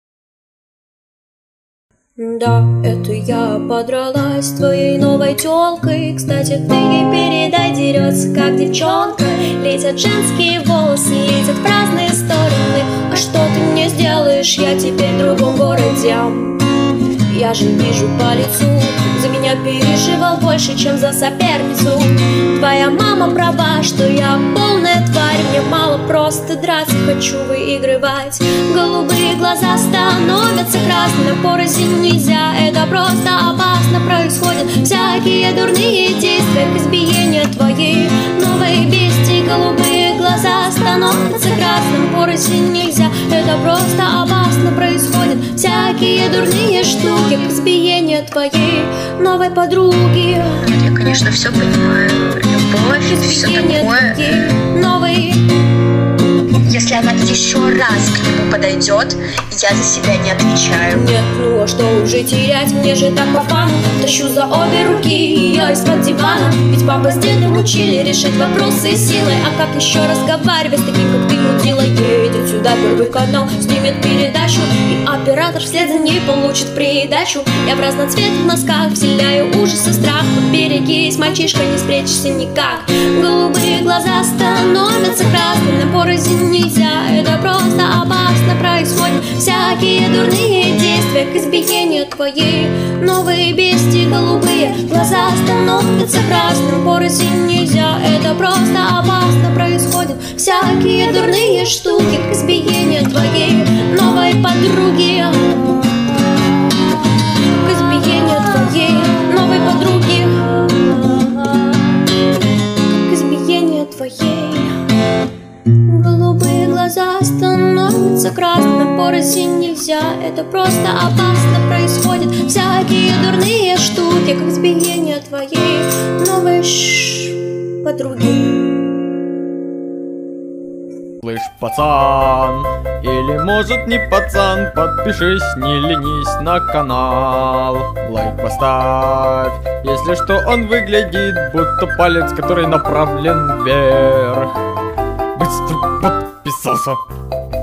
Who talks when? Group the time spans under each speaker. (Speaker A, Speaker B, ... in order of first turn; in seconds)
Speaker A: 2.2-16.6, 17.2-50.7, 53.0-55.5, 60.9-105.8, 107.6-111.8, 112.8-114.8, 115.8-128.7
Speaker B: 50.6-54.2, 56.6-61.0
Speaker C: 131.2-144.5, 145.3-147.0